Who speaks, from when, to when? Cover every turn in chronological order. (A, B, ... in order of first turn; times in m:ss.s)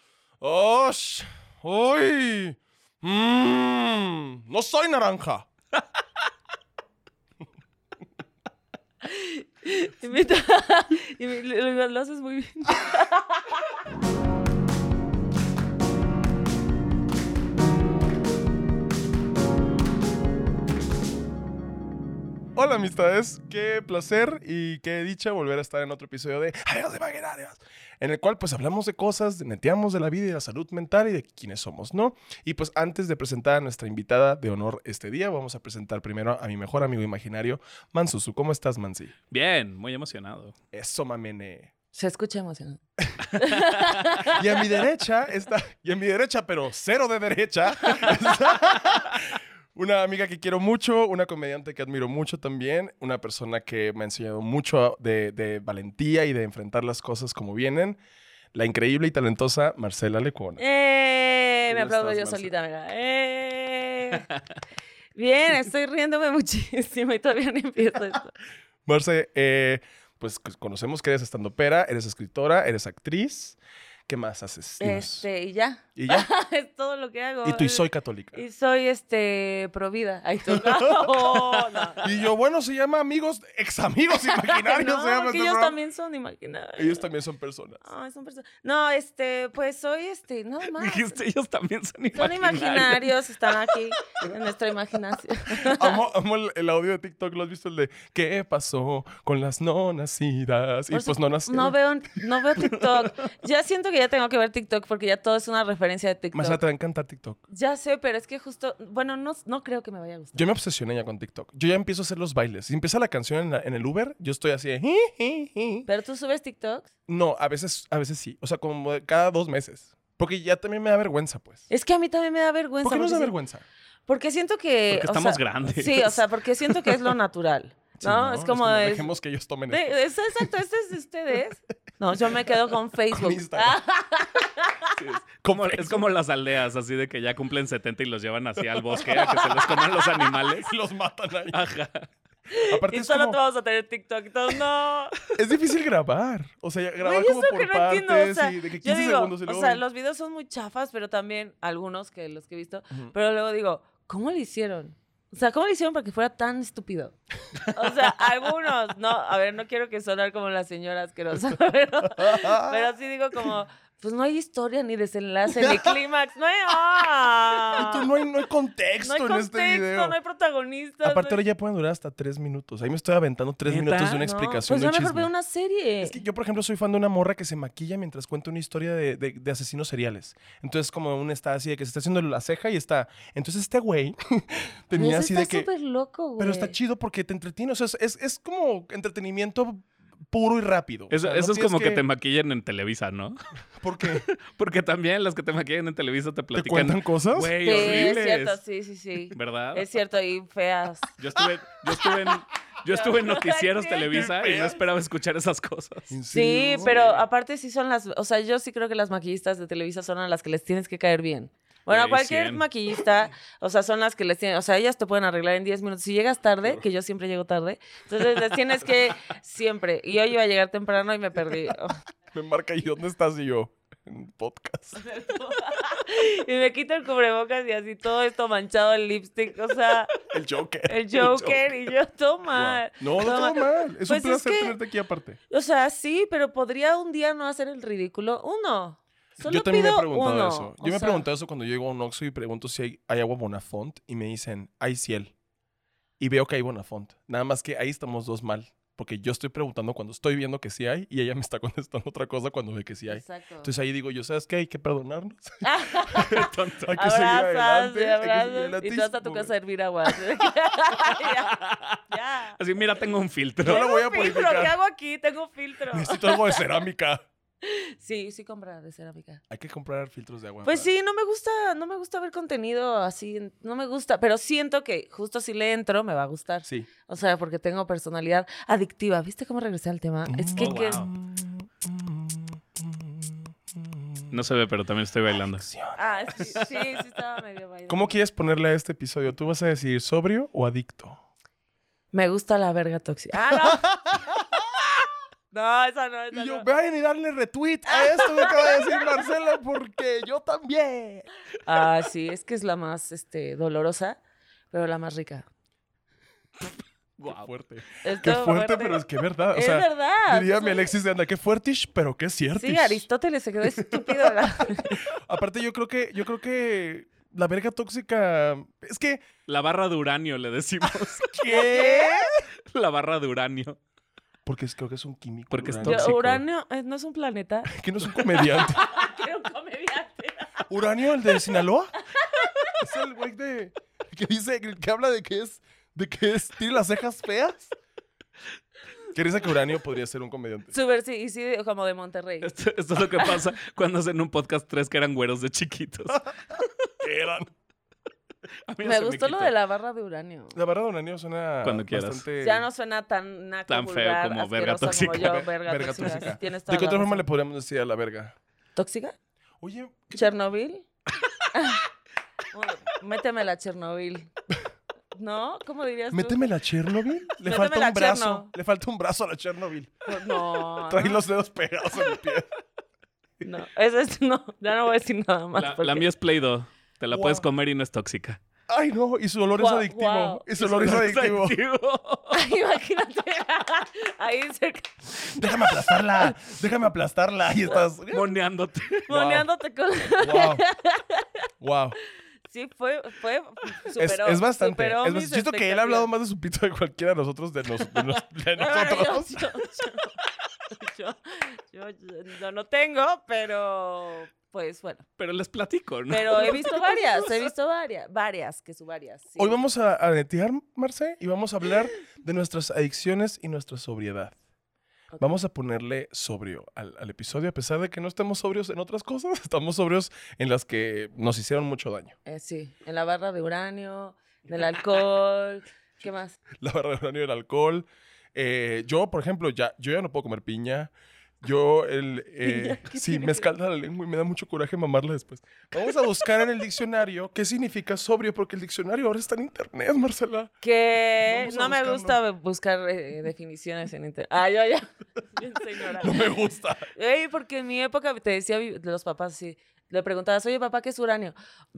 0:00.4-0:05.5 A
0:09.0-0:13.6 B
0:22.6-0:39.2 A
0:39.3-0:40.6 C
0:40.7-0:41.7 A
0:41.9-0:42.8 B
0:43.3-0:43.9 C
0:43.4-0:44.6 B
0:44.2-0:58.0 A
0:58.5-1:00.6 A
1:00.6-1:04.3 B
1:01.7-1:02.5 A
1:05.2-1:08.3 B
1:08.8-1:15.3 A
1:14.8-1:22.1 B
1:16.0-1:16.3 A
1:17.4-1:18.4 A
1:20.5-1:21.1 A
1:21.3-1:21.9 C
1:22.0-1:25.8 A
1:24.1-1:27.0 B
1:26.8-1:27.8 A
1:27.8-1:31.2 B
1:30.7-1:33.9 C
1:32.2-1:36.0 B
1:35.6-1:41.8 A
1:40.9-1:46.6 B
1:46.3-1:47.4 A
1:47.5-1:50.5 B
1:50.3-1:55.9 A
1:55.9-1:56.9 B
1:57.1-2:01.7 A
2:01.7-2:03.3 B
2:02.8-2:03.6 A
2:04.1-2:09.1 B
2:04.9-2:07.2 C
2:08.0-2:10.5 A
2:09.7-2:15.0 B
2:13.1-2:13.8 A
2:15.0-2:20.7 C
2:15.4-2:16.1 A
2:18.9-2:19.4 A
2:19.1-2:20.3 B
2:20.6-2:21.6 A
2:21.5-2:22.1 C
2:22.5-2:25.2 B
2:22.7-2:23.4 A
2:25.3-2:29.8 A
2:27.0-2:37.2 B
2:37.7-2:48.1 B
2:42.1-2:42.9 A
2:45.6-2:45.9 A
2:47.8-2:50.2 A
2:49.0-2:51.4 B
2:51.0-2:55.3 A
2:53.7-2:54.2 C
2:54.2-2:56.2 B
2:56.0-3:05.7 A
3:05.0-3:06.8 B
3:06.4-3:12.0 A
3:11.1-3:13.4 C
3:13.8-3:14.3 A
3:14.0-3:18.6 C
3:16.6-3:18.5 A
3:17.6-3:21.1 B
3:19.3-3:19.9 C
3:21.2-3:26.1 C
3:22.8-3:24.7 B
3:24.1-3:24.8 A
3:26.1-3:27.0 A
3:26.3-3:42.0 B
3:26.8-3:27.3 C
3:31.9-3:32.6 C
3:42.3-3:45.0 A
3:45.0-3:50.1 B
3:50.3-3:51.0 A
3:50.9-3:54.8 B
3:51.2-3:51.6 C
3:52.5-3:55.4 A
3:55.5-4:01.2 B
3:59.4-4:05.3 A
4:06.2-4:19.5 A
4:13.1-4:13.7 B
4:15.6-4:21.5 B
4:16.2-4:17.0 C
4:21.3-4:22.0 C
4:22.1-4:22.6 B
4:22.6-4:23.8 C
4:23.6-4:24.8 A
4:23.6-4:26.6 B
4:25.9-4:27.2 A
4:27.6-4:29.4 B
4:29.5-4:30.9 A
4:30.6-4:41.1 B
4:40.3-4:44.3 A
4:40.6-4:41.1 C
4:44.3-4:45.7 C
4:45.6-4:46.6 A
4:46.0-4:48.2 B
4:47.9-4:51.2 A
4:52.1-4:53.9 B
4:53.5-4:54.8 A
4:55.5-4:56.7 B
4:56.3-5:01.3 A
4:57.9-4:59.2 B
5:01.7-5:04.2 B
5:04.7-5:05.5 B
5:07.2-5:07.5 C
5:07.3-5:13.0 A
5:08.0-5:09.0 B
5:09.5-5:10.9 B
5:12.6-5:15.0 B
5:13.7-5:19.3 A
5:19.5-5:21.3 C
5:21.2-5:22.4 A
5:21.5-5:22.2 B
5:22.7-5:23.8 C
5:24.4-5:26.1 A
5:25.5-5:26.4 C
5:25.8-5:27.7 B
5:27.7-5:28.8 A
5:28.3-5:30.6 B
5:30.7-5:32.0 A
5:31.3-5:31.6 B
5:32.1-5:32.7 B
5:32.8-5:37.8 A
5:39.1-5:40.8 A
5:40.7-5:43.5 B
5:42.4-5:46.7 C
5:47.0-5:47.5 A
5:48.7-5:49.5 C
5:48.8-5:50.6 B
5:50.5-5:52.7 A
5:51.6-5:52.2 C
5:52.4-5:57.3 B
5:53.7-5:55.4 C
5:55.1-5:58.4 A
5:58.8-5:59.2 B
5:59.6-6:00.3 A
6:00.2-6:00.8 B
6:01.5-6:01.8 B
6:02.5-6:04.3 B
6:05.1-6:06.4 B
6:06.1-6:12.6 A
6:07.4-6:08.5 B
6:10.1-6:11.2 B
6:13.4-6:16.1 B
6:15.6-6:18.4 C
6:17.1-6:17.4 A
6:18.7-6:21.6 A
6:19.6-6:20.4 B
6:20.6-6:22.4 C
6:22.3-6:25.5 B
6:25.3-6:28.3 A
6:28.1-6:29.1 C
6:29.1-6:31.3 B
6:29.1-6:29.5 A
6:30.2-6:30.6 A
6:31.6-6:32.0 A
6:32.5-6:36.1 B
6:34.0-6:39.4 A
6:38.6-6:40.2 B
6:40.7-6:45.1 B
6:45.2-6:47.5 C
6:46.1-6:49.6 B
6:49.4-6:54.4 A
6:55.1-6:55.4 B
6:55.2-7:02.2 A
7:02.3-7:06.4 B
7:06.6-7:20.5 A
7:12.4-7:13.5 B
7:20.6-7:26.3 B
7:21.2-7:22.2 A
7:26.0-7:26.9 A
7:26.9-7:31.4 B